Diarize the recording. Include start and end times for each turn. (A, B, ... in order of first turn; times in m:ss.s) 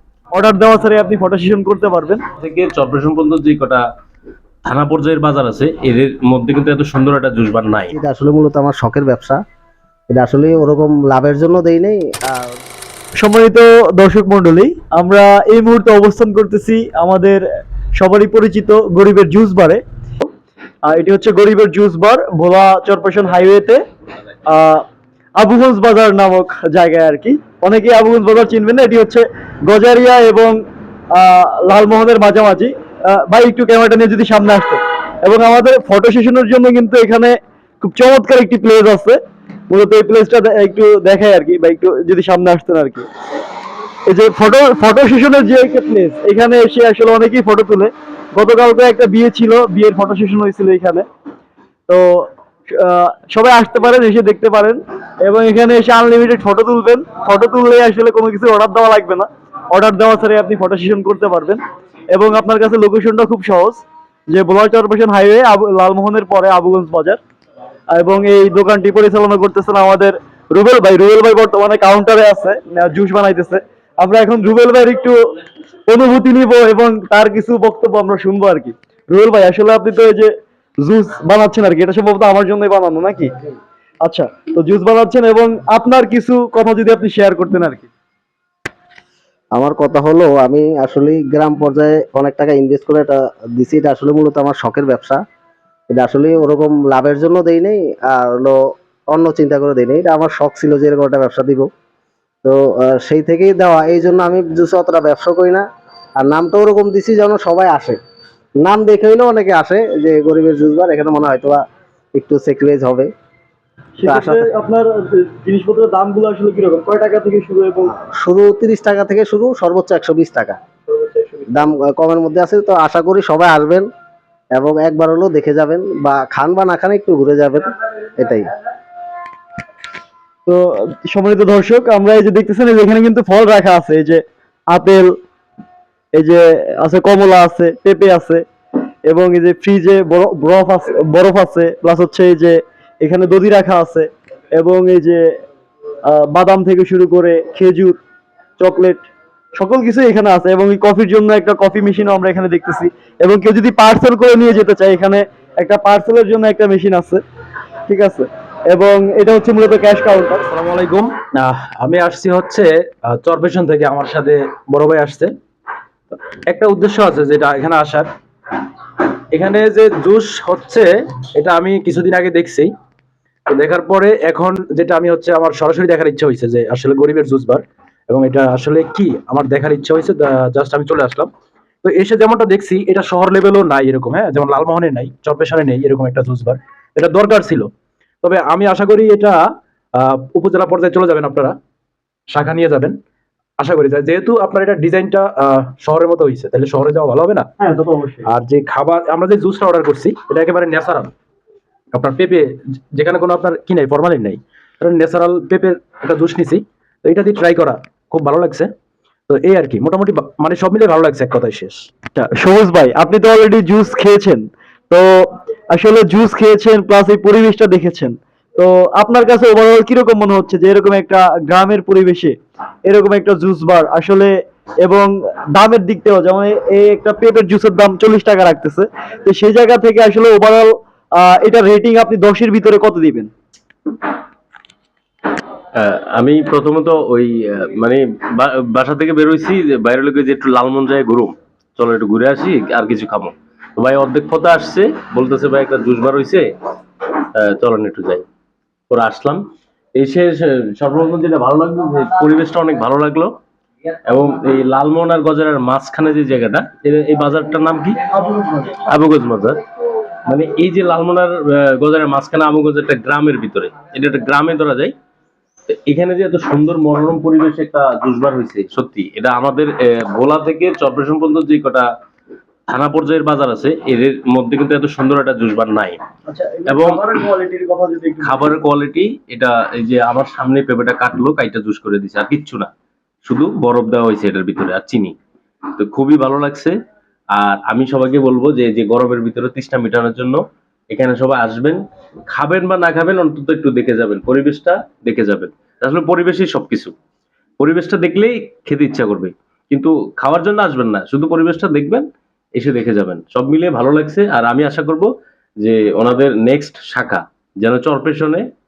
0:00.3-0:02.2 A
0:02.4-0:03.8 B
0:04.6-0:07.9 B
0:07.9-0:09.4 C
0:10.1-0:12.6 C
0:13.2-0:17.4 A
0:18.0-0:19.8 A
0:20.8-0:23.8 A
0:24.5-0:24.8 A
0:25.4-0:39.2 A
0:39.7-0:43.1 A
0:44.1-0:51.0 A
0:51.9-1:01.6 A
1:02.1-1:07.2 A
1:07.9-1:15.2 A
1:15.9-1:23.3 A
1:24.0-1:27.9 A
1:29.5-1:35.2 C
1:35.9-1:41.7 C
1:42.4-1:45.6 C
1:46.2-1:48.0 C
1:48.6-1:51.6 C
1:52.1-1:53.1 C
1:54.0-1:57.9 A
1:54.1-1:54.5 C
1:57.9-2:00.6 C
2:00.9-2:01.7 A
2:01.5-2:03.9 C
2:04.5-2:08.5 C
2:10.5-2:15.1 A
2:16.1-2:18.4 A
2:19.1-2:25.4 A
2:26.0-2:28.0 A
2:28.6-2:37.2 A
2:37.9-2:40.4 A
2:40.5-2:45.3 D
2:46.5-2:48.1 D
2:49.3-2:52.7 D
2:53.5-3:01.3 D
3:01.8-3:07.7 D
3:08.2-3:11.6 D
3:12.3-3:13.0 D
3:13.6-3:17.5 D
3:17.6-3:18.3 A
3:18.3-3:21.1 D
3:21.9-3:28.7 D
3:29.3-3:31.9 D
3:32.2-3:44.3 A
3:44.8-3:53.3 A
3:55.8-4:06.5 B
4:07.4-4:08.2 B
4:08.9-4:09.4 B
4:10.0-4:13.3 B
4:14.1-4:18.0 B
4:18.1-4:18.8 A
4:18.8-4:19.6 B
4:20.3-4:24.9 B
4:25.7-4:31.9 B
4:32.7-4:36.0 B
4:36.3-4:38.5 A
4:36.7-4:37.0 B
4:38.2-4:42.7 B
4:43.2-4:45.2 B
4:45.8-4:46.8 B
4:47.4-4:50.4 B
4:50.9-4:56.9 B
4:57.6-5:02.0 B
5:02.6-5:05.1 B
5:05.6-5:08.4 B